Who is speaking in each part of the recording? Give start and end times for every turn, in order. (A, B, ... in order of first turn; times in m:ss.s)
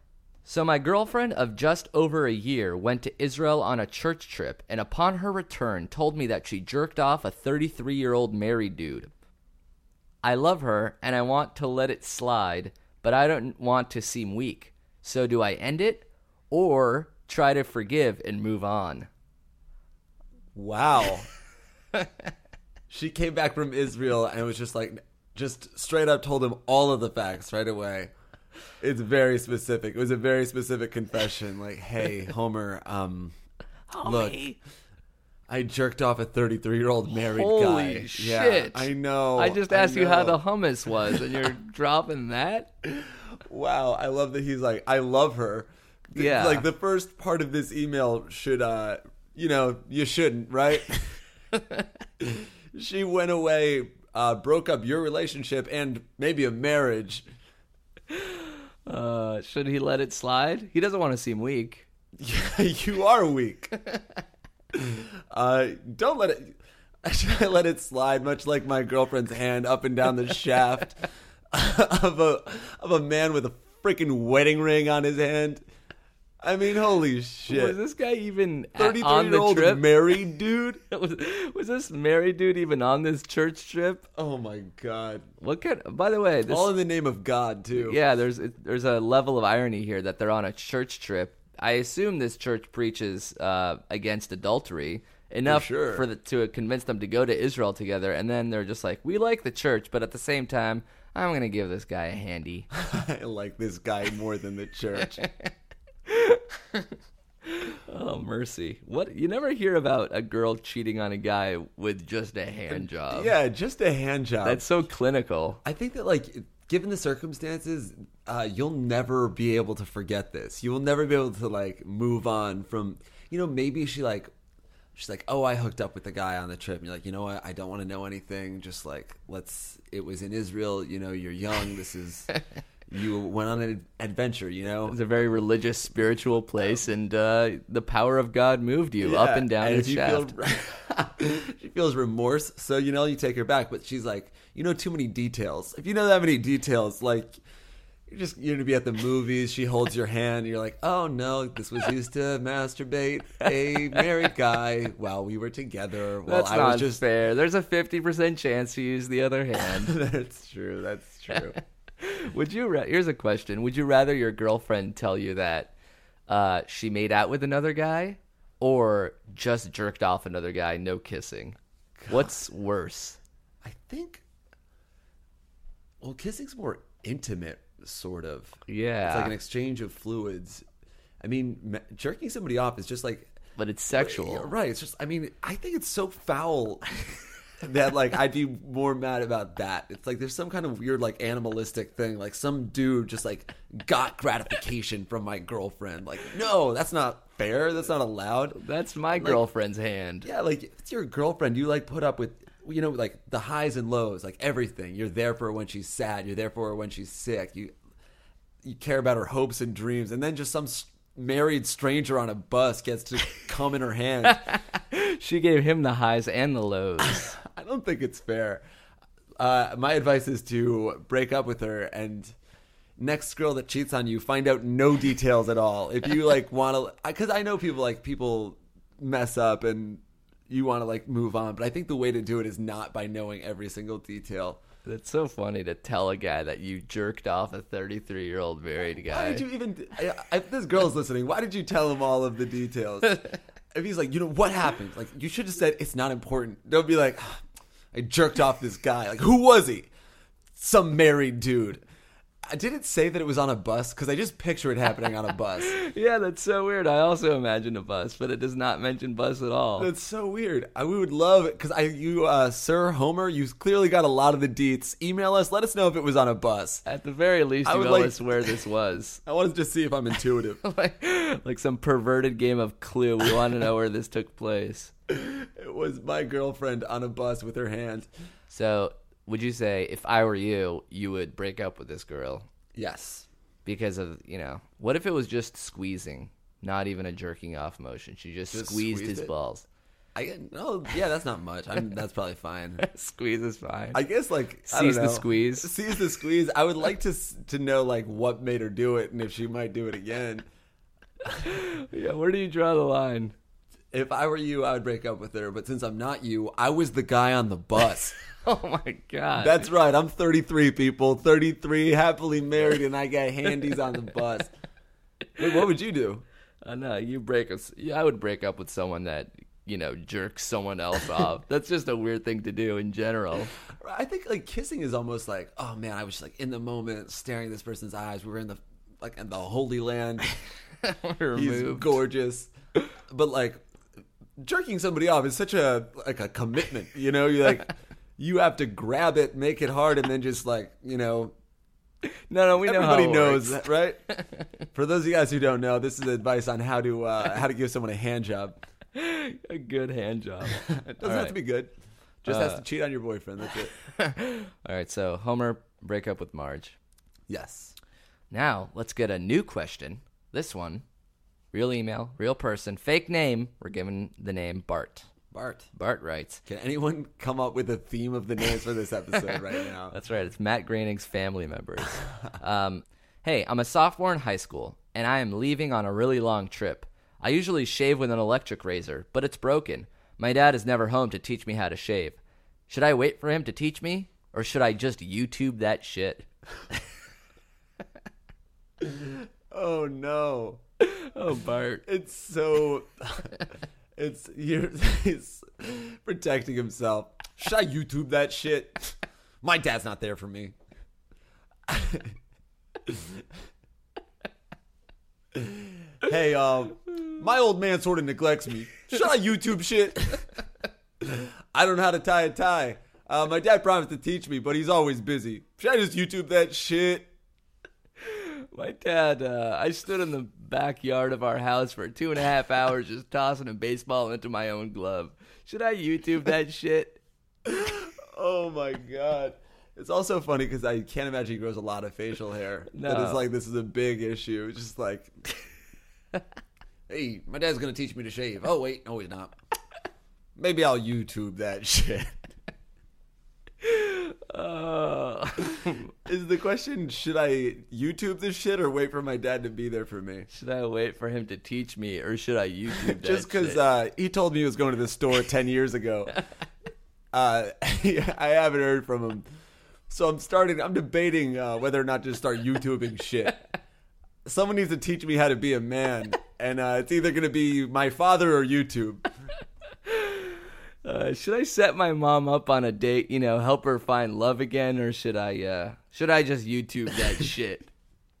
0:00.4-0:09.1 A
0:10.2-0:19.1 A
0:20.5-0:21.3 B
0:22.9-0:28.1 B
0:28.8-0:33.3 B
0:33.9-0:34.6 A
0:34.0-0:34.4 B
0:35.5-0:41.5 B
0:37.3-0:42.7 A
0:42.8-0:51.2 B
0:46.1-0:46.7 A
0:52.2-0:57.3 B
0:58.1-1:01.9 A
1:02.2-1:03.7 B
1:04.7-1:15.6 B
1:16.4-1:17.8 B
1:17.5-1:19.9 A
1:18.8-1:20.8 B
1:20.9-1:24.1 A
1:24.1-1:25.3 B
1:25.4-1:26.7 A
1:26.5-1:28.0 B
1:27.8-1:42.7 A
1:35.4-1:36.0 B
1:42.7-1:45.2 B
1:46.1-1:46.8 A
1:47.5-1:53.3 A
1:52.7-1:54.6 B
1:54.4-1:55.6 A
1:55.6-2:04.3 B
2:04.9-2:12.3 B
2:12.9-2:15.0 B
2:14.8-2:20.3 A
2:19.0-2:27.4 B
2:28.1-2:37.0 B
2:36.2-2:39.9 A
2:39.6-2:41.6 B
2:42.0-2:45.7 A
2:46.3-2:51.6 A
2:52.0-2:52.3 B
2:52.1-2:53.2 A
2:53.6-2:54.2 B
2:56.0-3:00.6 B
2:58.7-2:59.3 A
3:01.2-3:03.3 B
3:03.6-3:04.5 A
3:03.9-3:06.9 B
3:07.6-3:18.6 B
3:18.5-3:20.3 A
3:19.1-3:19.4 B
3:20.2-3:27.7 B
3:28.6-3:34.4 B
3:34.3-3:37.4 A
3:37.0-3:38.6 B
3:39.4-3:42.3 B
3:43.0-3:54.6 B
3:54.8-3:59.4 A
3:59.0-4:07.4 B
4:07.9-4:09.9 B
4:10.6-4:11.8 B
4:12.4-4:15.8 B
4:15.6-4:19.9 A
4:19.8-4:26.8 B
4:26.8-4:29.2 A
4:27.6-4:28.6 B
4:29.2-4:30.6 B
4:30.6-4:34.9 A
4:35.1-4:38.1 B
4:38.5-4:42.4 A
4:42.7-4:43.3 B
4:43.6-4:49.6 A
4:48.5-4:49.3 B
4:50.1-4:52.8 B
4:52.8-4:54.0 A
4:53.9-5:00.5 B
4:54.7-4:55.7 A
5:01.3-5:03.3 A
5:03.9-5:08.1 B
5:08.4-5:09.6 A
5:09.4-5:14.5 B
5:15.4-5:16.2 B
5:16.6-5:23.5 A
5:23.8-5:30.3 B
5:30.8-5:32.0 A
5:31.3-5:32.5 B
5:33.1-5:33.6 B
5:34.4-5:41.3 B
5:42.3-5:43.7 A
5:42.6-5:44.0 B
5:44.7-5:48.6 B
5:48.9-5:51.3 A
5:50.4-5:51.7 B
5:52.2-5:53.7 B
5:52.3-5:52.6 A
5:54.0-5:56.8 A
5:57.3-5:57.7 B
5:58.3-6:00.8 A
6:01.5-6:05.1 A
6:05.3-6:05.7 B
6:05.7-6:06.4 A
6:06.4-6:10.0 B
6:09.9-6:26.3 A
6:28.8-6:30.6 B
6:30.8-6:31.8 A
6:31.8-6:33.4 B
6:34.0-6:40.5 B
6:41.7-6:42.1 B
6:42.8-6:43.2 B
6:45.3-6:50.3 B
6:51.0-6:57.1 B
6:58.0-7:07.0 A
7:07.4-7:15.1 B
7:12.7-7:13.2 A
7:16.9-7:19.4 B
7:20.4-7:22.2 B
7:23.6-7:25.8 A
7:26.0-7:30.3 B
7:30.3-7:33.6 A
7:32.7-7:36.2 B
7:37.1-7:39.3 B
7:39.9-7:43.5 B
7:44.2-7:49.0 B
7:49.9-7:50.2 A
7:50.8-7:57.7 A